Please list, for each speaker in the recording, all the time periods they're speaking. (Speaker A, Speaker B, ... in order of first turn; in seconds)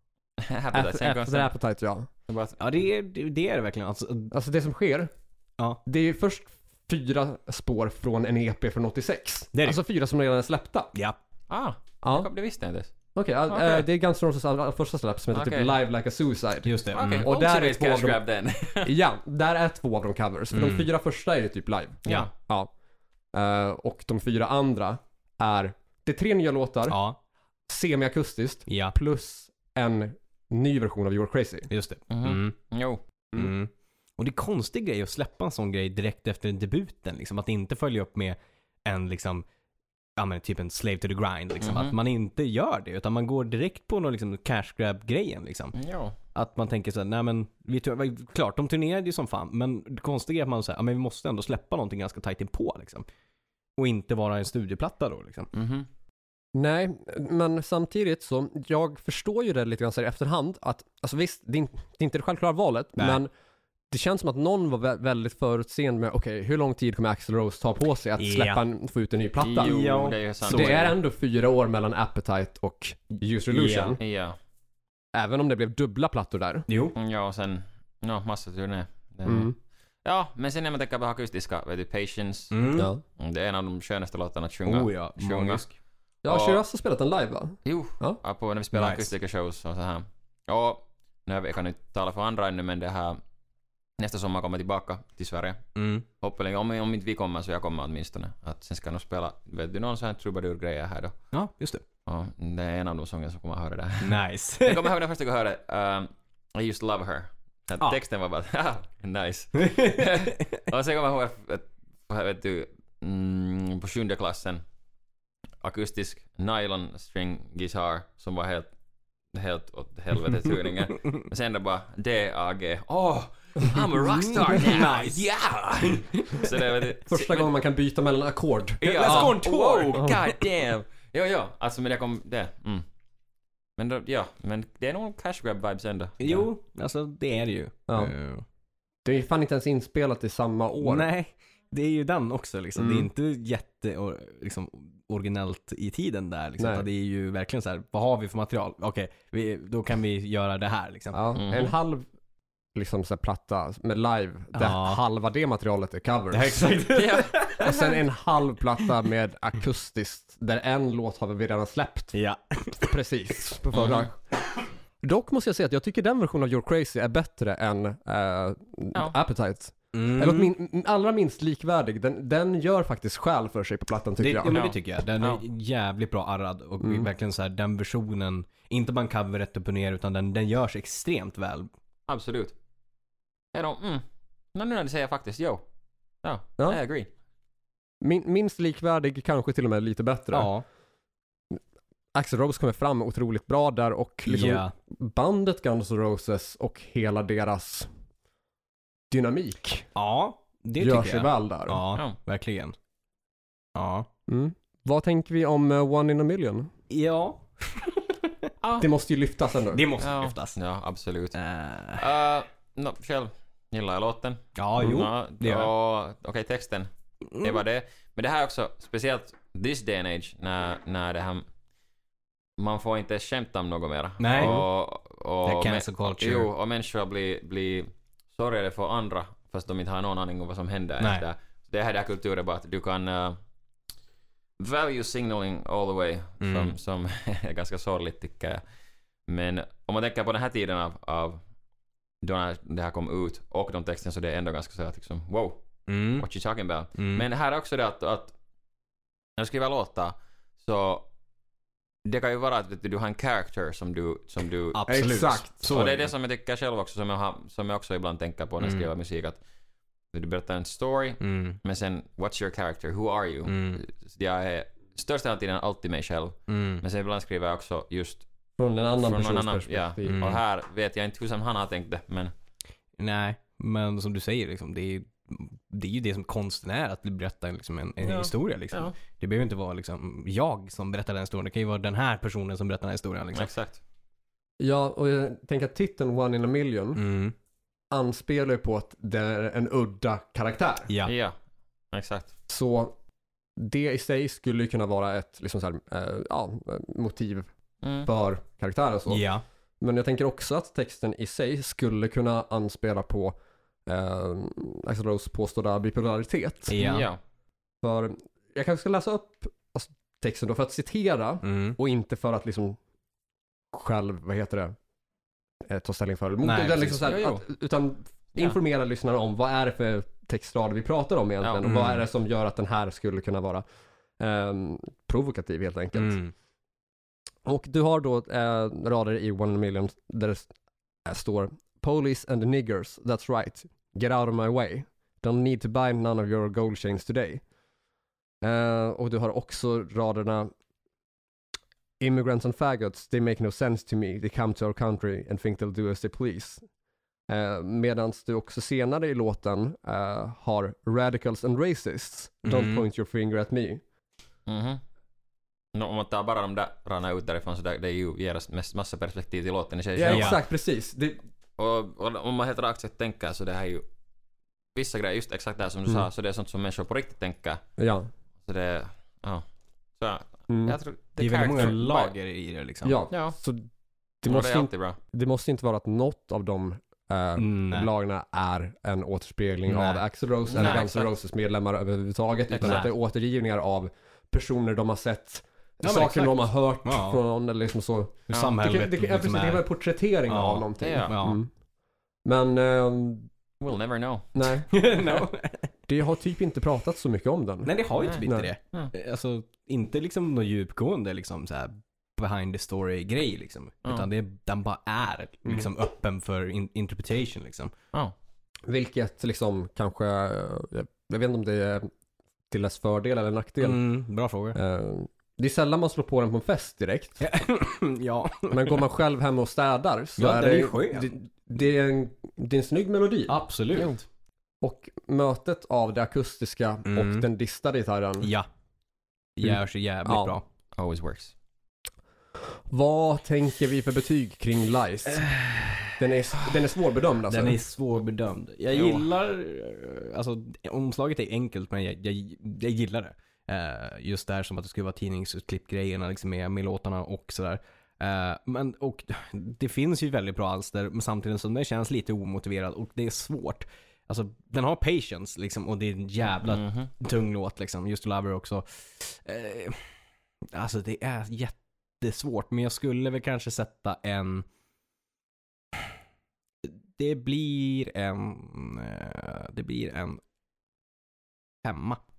Speaker A: 0.4-1.5, 2.3-2.6, 11.5-12.9, 13.5-13.9, 15.3-15.8, 16.9-18.9, 22.1-22.3, 32.1-33.0, 41.6-41.9, 45.7-46.1, 55.5-55.9, 69.4-70.9, 74.0-74.4, 77.0-85.6, 86.3-86.6, 87.6-93.2, 94.0-95.6, 96.2-101.2, 102.0-114.6, 115.6-118.7, 119.3-127.5, 128.8-132.8, 133.8-136.5, 151.4-151.7, 156.9-158.0, 163.7-164.1, 174.5-175.4, 182.1-182.5, 183.5-185.6, 186.2-187.1, 208.6-208.9, 210.0-211.4, 212.0-221.4, 222.6-233.4, 234.6-238.6, 239.2-241.4, 242.2-248.3, 249.4-251.1, 252.0-259.4, 260.1-268.2, 269.0-272.3, 278.0-278.9, 283.3-283.8, 291.0-291.3, 291.9-292.3, 297.8-298.1, 306.8-307.2, 317.0-317.4, 354.5-354.8, 355.7-360.4, 361.6-363.8, 364.7-367.6, 368.4-369.4, 370.0-372.1, 373.1-373.4, 374.2-375.0, 380.5-381.1, 382.5-382.8, 390.8-391.2, 393.6-394.6, 398.0-398.9, 423.8-424.0, 430.8-431.3, 438.7-439.1, 456.4-456.9
Speaker B: 0.7-2.1, 4.3-5.1, 5.8-10.9, 12.0-12.3, 13.1-18.2, 18.8-22.7, 23.3-27.0, 27.7-31.7, 56.5-63.3, 63.9-74.0, 75.1-76.7, 79.2-79.5, 82.8-83.0, 86.2-88.2, 127.0-129.3, 137.9-138.1, 139.0-141.1, 142.8-143.1, 146.6-146.9, 151.1-152.1, 152.7-156.8, 157.6-162.1, 162.7-164.2, 165.0-174.6, 176.8-177.1, 188.0-190.5, 192.1-197.9, 199.1-199.9, 200.8-201.8, 204.3-206.7, 208.8-209.9, 224.4-224.6, 254.9-255.7, 268.6-270.2, 284.6-287.0, 287.9-290.9, 292.5-293.0, 293.6-297.5, 298.0-299.2, 299.8-306.9, 307.8-312.8, 313.7-314.8, 315.7-323.6, 324.2-326.2, 327.4-330.5, 331.1-337.4, 338.4-340.5, 342.0-346.6, 347.3-353.8, 359.9-361.2, 367.8-368.1, 370.5-370.8, 372.8-373.7, 374.2-391.5, 392.2-393.3, 394.3-394.7, 395.9-398.5, 408.7-411.9, 412.5-413.8, 414.5-417.2, 418.5-423.9, 424.6-428.3, 429.4-430.4, 432.7-435.3, 435.9-437.6
Speaker C: 2.6-4.3, 9.5-9.8, 16.6-17.3, 20.5-20.9, 26.9-27.2, 28.7-28.9, 31.7-32.6, 33.3-39.4, 40.2-45.8, 46.3-53.0, 53.8-55.5, 68.2-68.6, 69.6-71.0, 73.5-74.0, 76.7-77.0, 82.5-82.9, 84.6-85.7, 88.7-89.1, 95.7-96.0, 101.3-101.8, 104.0-104.9, 109.6-110.0, 124.1-126.8, 128.8-130.4, 136.2-138.4, 140.8-151.2, 154.5-155.0, 156.3-157.7, 162.1-162.8, 169.9-170.5, 174.2-181.7, 190.3-190.6, 194.3-194.7, 199.9-202.7, 203.7-204.1, 206.9-208.3, 209.7-210.6, 211.3-212.1, 214.6-215.7, 217.3-217.6, 224.2-224.6, 225.4-226.5, 231.0-231.2, 236.4-236.7, 245.9-246.2, 247.0-247.3, 254.7-256.1, 258.6-258.9, 261.2-261.6, 263.5-263.8, 266.5-266.8, 270.0-270.4, 273.0-283.5, 286.9-287.3, 290.9-291.1, 299.1-299.4, 306.7-307.1, 311.4-311.8, 316.4-317.1, 321.6-322.0, 325.9-326.3, 352.4-352.8, 360.1-360.4, 371.2-373.0, 377.4-377.9, 379.7-380.0, 380.5-380.8, 382.6-382.9, 385.8-387.2, 388.3-389.6, 390.3-391.4, 394.7-395.7, 397.6-407.7, 413.6-414.6, 417.2-418.8, 420.2-421.1, 423.3-423.9, 426.9-427.3, 428.2-428.5, 429.4-430.4, 435.1-436.0, 437.3-464.4, 466.6-470.2, 471.6-472.0